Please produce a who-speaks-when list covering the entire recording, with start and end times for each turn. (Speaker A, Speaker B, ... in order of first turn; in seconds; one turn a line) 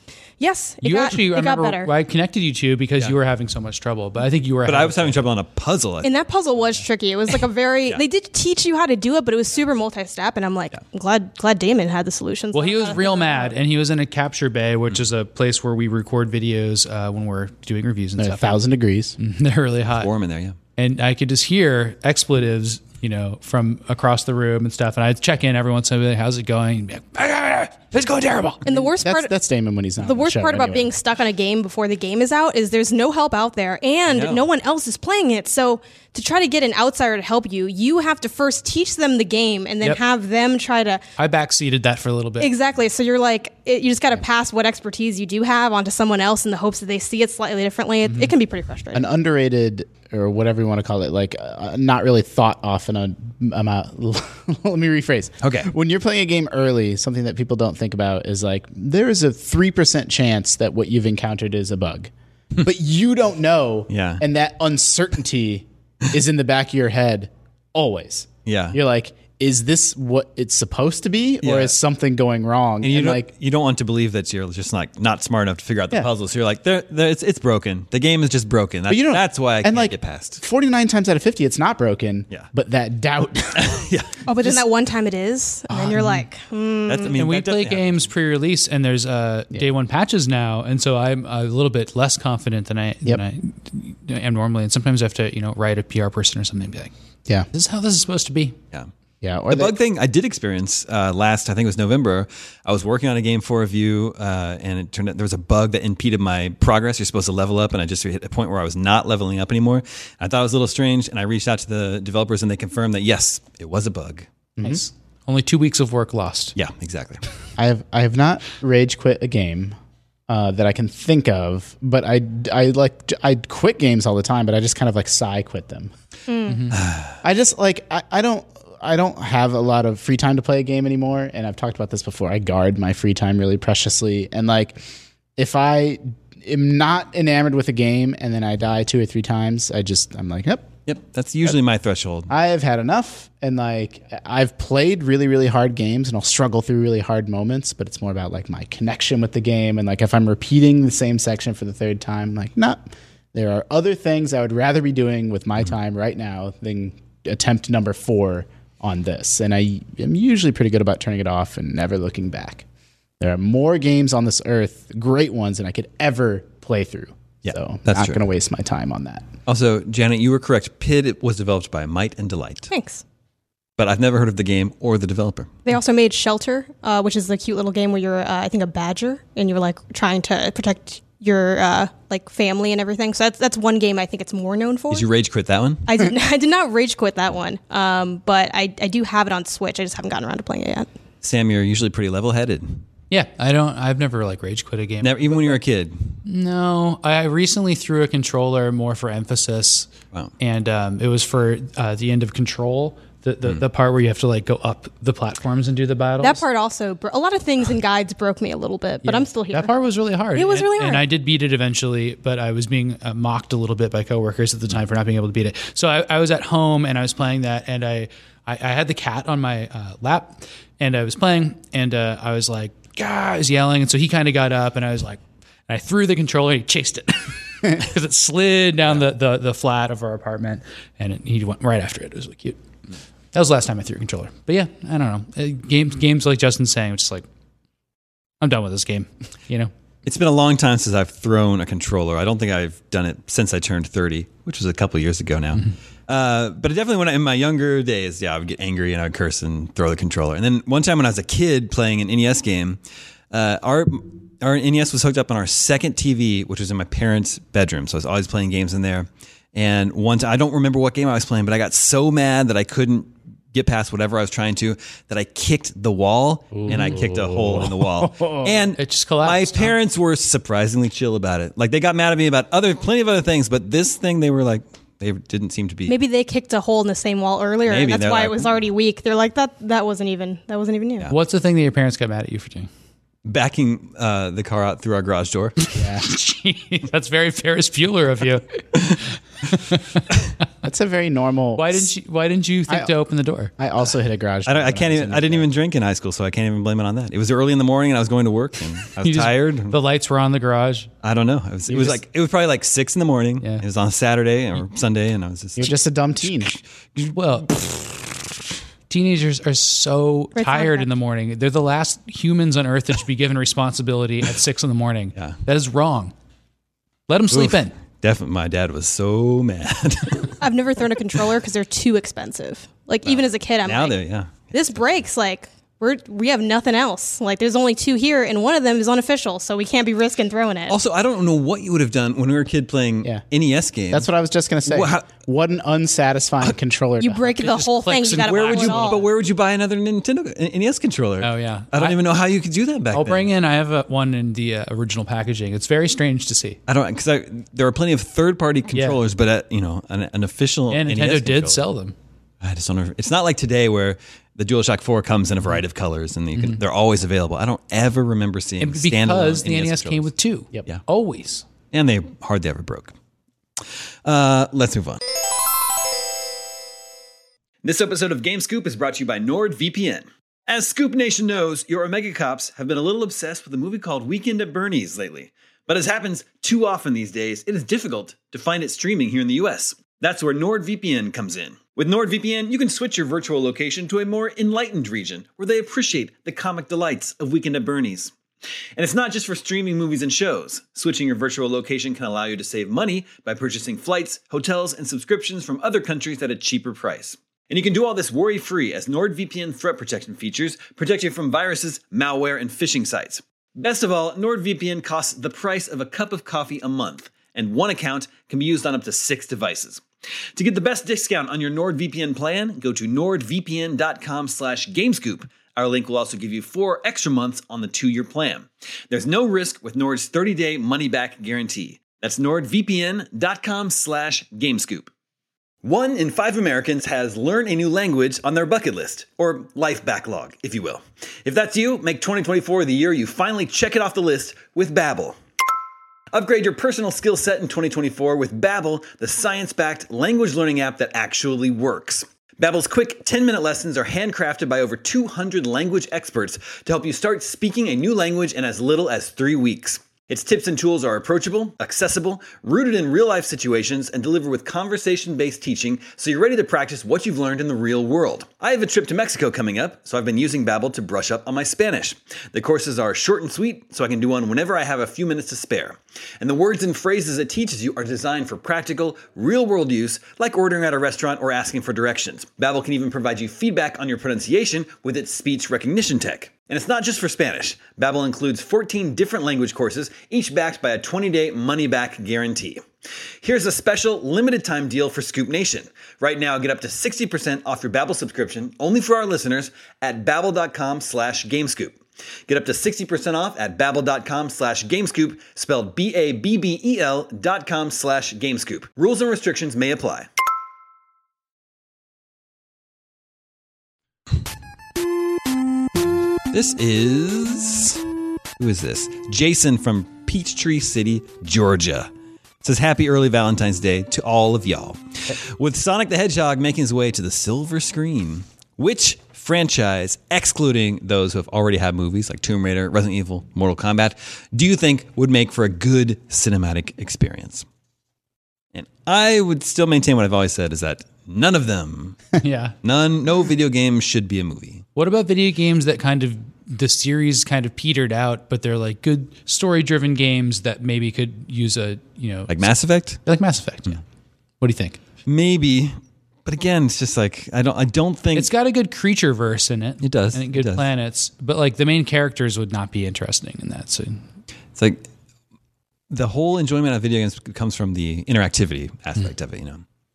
Speaker A: 0.4-1.9
Speaker B: 0.8-5.2
Speaker C: 4.6-6.1
Speaker A: 6.0-13.6
Speaker B: 12.5-18.6
Speaker D: 18.2-19.2
Speaker B: 19.2-20.1
Speaker C: 19.9-20.6
Speaker B: 20.8-28.6
Speaker A: 28.6-29.3
Speaker D: 28.7-30.9
Speaker A: 30.0-41.0
Speaker C: 34.1-34.4
Speaker B: 41.2-42.5
Speaker A: 42.4-49.1
Speaker B: 48.1-48.3
Speaker D: 48.9-73.3
Speaker C: 55.4-55.7
Speaker C: 63.9-64.2
Speaker C: 68.5-68.8
Speaker C: 71.4-71.7
Speaker C: 72.8-80.4
Speaker D: 78.9-83.8
Speaker C: 83.5-84.2
Speaker A: 84.2-87.2
Speaker D: 85.7-86.2
Speaker C: 86.9-87.9
Speaker B: 87.1-96.9
Speaker B: 97.5-98.6
Speaker D: 99.2-99.7
Speaker C: 99.5-114.3
Speaker D: 114.6-114.8
Speaker B: 114.6-116.5
Speaker C: 116.5-117.2
Speaker D: 117.6-119.7
Speaker D: 120.3-125.9
Speaker A: 126.3-126.6
Speaker B: 126.5-126.7
Speaker C: 126.7-127.2
Speaker D: 127.2-134.8
Speaker D: 135.4-140.7
Speaker C: 140.9-142.3
Speaker D: 142.3-162.6
Speaker D: 163.2-169.3
Speaker C: 167.4-168.2
Speaker C: 169.4-172.7
Speaker A: 172.7-173.0
Speaker C: 173.8-175.6
Speaker A: 175.7-185.1
Speaker C: 184.9-185.9
Speaker A: 185.8-190.9
Speaker C: 191.2-192.8
Speaker B: 193.1-195.6
Speaker C: 195.0-196.1
Speaker B: 196.2-199.9
Speaker B: 200.4-206.4
Speaker A: 206.2-209.7
Speaker B: 209.0-232.6
Speaker A: 210.3-211.1
Speaker B: 233.3-237.2
Speaker B: 238.4-239.7
Speaker C: 240.0-252.8
Speaker C: 253.3-275.9
Speaker D: 266.5-268.7
Speaker B: 268.8-269.7
Speaker A: 275.9-281.1
Speaker C: 277.6-278.5
Speaker B: 281.1-282.7
Speaker C: 283.2-285.6
Speaker B: 285.6-290.1
Speaker D: 285.7-286.1
Speaker D: 290.6-291.9
Speaker B: 291.6-293.5
Speaker D: 292.7-293.0
Speaker D: 293.6-295.5
Speaker C: 294.4-299.8
Speaker B: 299.0-300.9
Speaker C: 301.0-308.1
Speaker D: 305.6-306.5
Speaker B: 307.1-307.5
Speaker B: 308.9-316.1
Speaker A: 310.4-310.9
Speaker B: 317.1-317.7
Speaker C: 317.3-320.4
Speaker A: 320.4-330.8
Speaker C: 323.1-324.5
Speaker C: 330.7-334.1
Speaker D: 333.9-337.4
Speaker C: 334.6-335.1
Speaker A: 337.0-339.1
Speaker B: 337.4-339.0
Speaker C: 338.2-343.3
Speaker B: 341.2-342.0
Speaker B: 342.9-346.6
Speaker C: 346.7-351.6
Speaker B: 348.7-349.0
Speaker B: 350.7-351.9
Speaker C: 352.4-360.1
Speaker B: 358.6-361.4
Speaker C: 361.7-362.9
Speaker C: 364.0-365.0
Speaker C: 367.6-388.1
Speaker C: 388.8-409.8
Speaker C: 410.3-424.9
Speaker C: 425.6-435.1
Speaker C: 436.1-482.6
Speaker C: 483.2-500.1
Speaker C: 506.3-507.8
Speaker C: 508.4-511.9
Speaker C: 512.4-527.5
Speaker C: 528.5-532.0
Speaker B: 532.2-532.5
Speaker C: 532.6-534.6
Speaker B: 534.7-543.8
Speaker C: 542.3-543.0
Speaker B: 544.4-544.8
Speaker C: 545.0-548.3
Speaker B: 548.1-554.0
Speaker C: 549.8-550.7
Speaker C: 554.5-554.9
Speaker C: 555.9-559.6